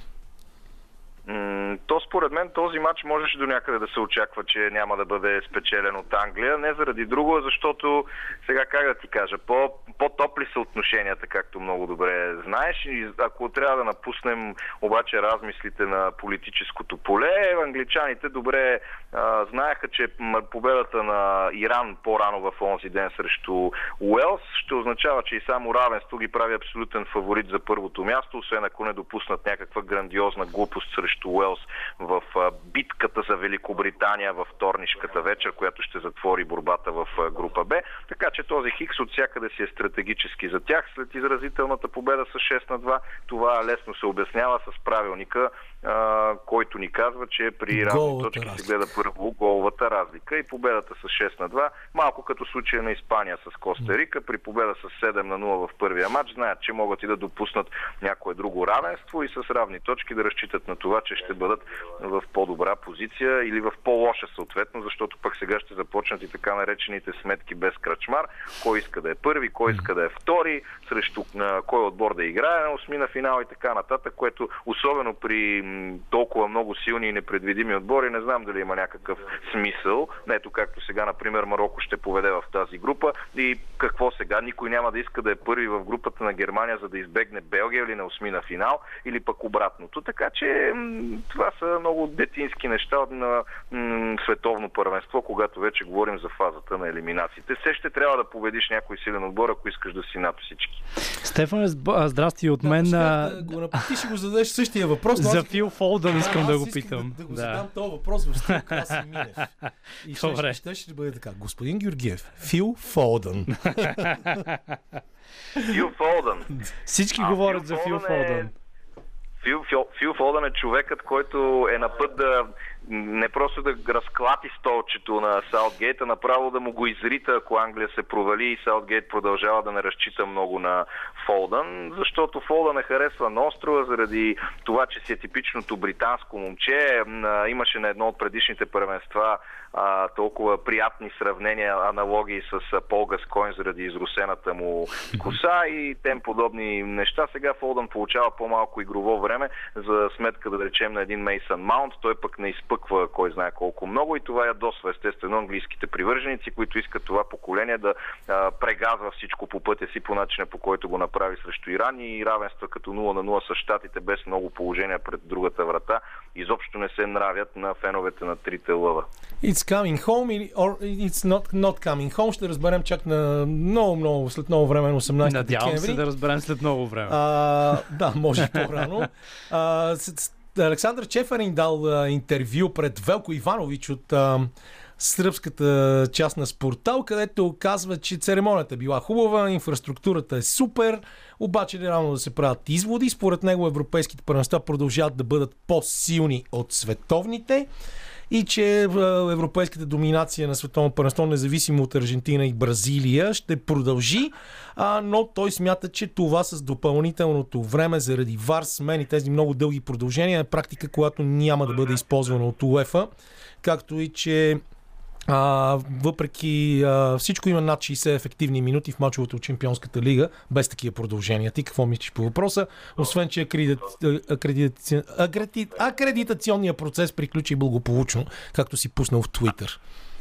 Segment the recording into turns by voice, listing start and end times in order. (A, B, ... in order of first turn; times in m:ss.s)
0:01.2-1:40.8 A
0:47.7-0:48.6 B
1:41.1-1:43.9 C
1:42.6-1:49.5 B
1:45.2-1:47.6 C
1:48.5-1:49.2 C
1:50.0-1:54.4 B
1:50.1-1:50.6 C
1:53.8-1:54.4 C
1:55.6-1:56.6 A
1:56.8-1:58.5 C
1:57.2-1:58.5 A
1:59.4-2:49.1 A
2:49.4-2:56.0 B
2:55.2-2:57.2 C
2:57.1-3:17.7 B
3:18.3-3:33.1 B
3:33.6-3:34.6 B
3:35.3-3:49.8 B